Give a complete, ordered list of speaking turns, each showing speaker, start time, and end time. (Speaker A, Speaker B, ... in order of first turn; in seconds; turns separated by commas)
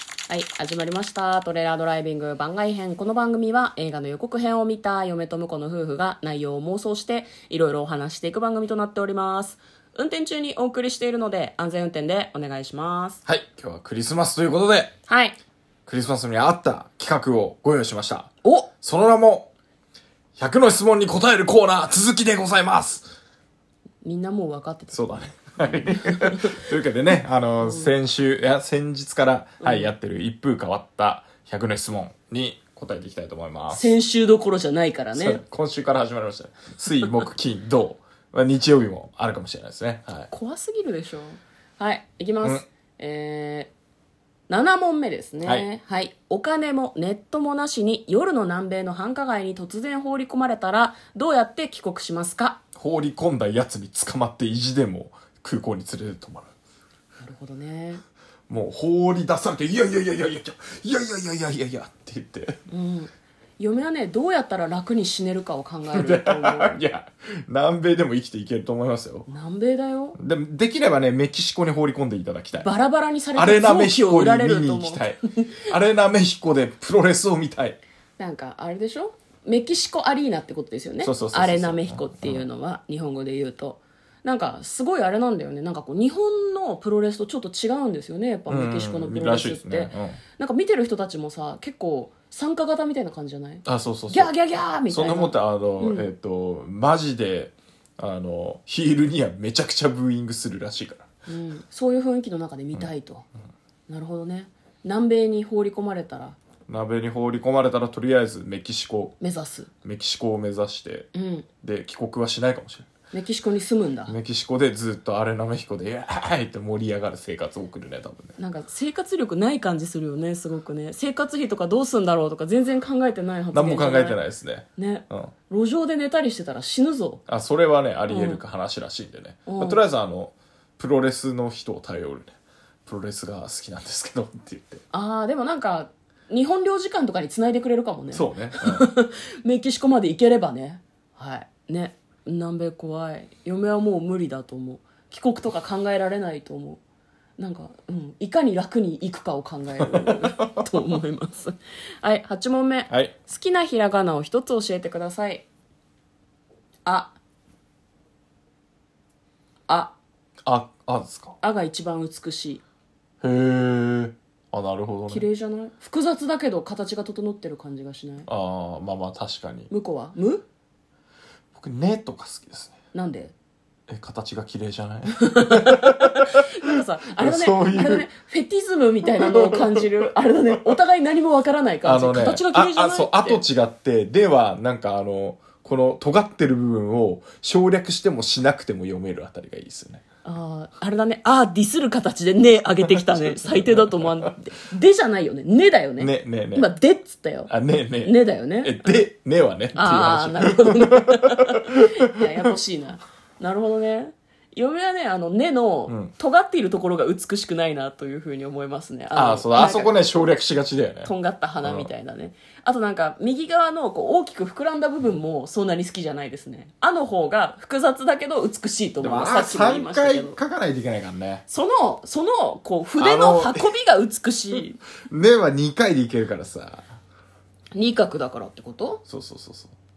Speaker A: 0.3-13.2, Speaker B: 13.2-14.9, Speaker A: 15.1-15.3, Speaker B: 15.8-19.5, Speaker A: 18.4-18.7, Speaker B: 20.4-23.1, Speaker A: 24.0-26.6, Speaker B: 24.9-33.9, Speaker A: 27.6-27.9, Speaker A: 29.6-29.9, Speaker A: 33.7-35.4, Speaker B: 35.1-40.3, Speaker A: 40.3-43.7, Speaker A: 44.5-52.6, Speaker B: 52.8-56.5, Speaker A: 57.2-58.0, Speaker B: 58.5-62.6, Speaker A: 62.7-66.8, Speaker B: 65.9-69.3, Speaker A: 69.3-70.2, Speaker B: 70.2-72.7, Speaker A: 72.5-75.6, Speaker B: 73.3-77.8, Speaker A: 78.2-96.1, Speaker B: 81.0-82.5, Speaker B: 88.5-90.2, Speaker B: 93.6-94.3, Speaker B: 94.9-101.0, Speaker A: 101.3-103.3, Speaker A: 103.9-106.4, Speaker B: 106.7-109.1, Speaker A: 109.2-109.7, Speaker B: 109.8-111.1, Speaker A: 111.1-111.5, Speaker B: 111.6-112.9, Speaker A: 113.1-114.2, Speaker B: 114.1-118.3, Speaker A: 118.4-124.2, Speaker B: 123.5-125.3, Speaker A: 124.8-127.2, Speaker B: 127.3-132.3, Speaker A: 128.1-128.4, Speaker A: 129.4-129.8, Speaker B: 132.8-134.8, Speaker A: 134.9-146.8, Speaker B: 138.1-138.8, Speaker A: 147.4-155.4, Speaker B: 149.8-150.7, Speaker A: 156.8-157.1, Speaker A: 159.7-159.9, Speaker B: 160.4-161.4, Speaker A: 161.4-162.6, Speaker B: 163.2-165.2, Speaker A: 165.1-168.3, Speaker B: 168.3-169.7, Speaker A: 169.7-170.4, Speaker B: 171.5-172.7, Speaker A: 172.9-173.3, Speaker B: 173.9-176.5, Speaker A: 175.2-183.4, Speaker B: 177.2-178.1, Speaker B: 179.2-179.8, Speaker B: 181.8-190.0, Speaker A: 190.2-197.5, Speaker B: 192.8-194.3, Speaker B: 196.0-196.7, Speaker B: 197.5-202.2, Speaker A: 198.0-198.9, Speaker A: 199.7-210.3, Speaker B: 205.9-206.1, Speaker B: 209.1-211.1, Speaker A: 211.0-220.4, Speaker B: 211.6-211.9, Speaker B: 219.0-221.4, Speaker A: 221.5-224.8, Speaker B: 223.0-223.7, Speaker B: 225.0-226.8, Speaker A: 227.8-229.0, Speaker B: 229.1-229.7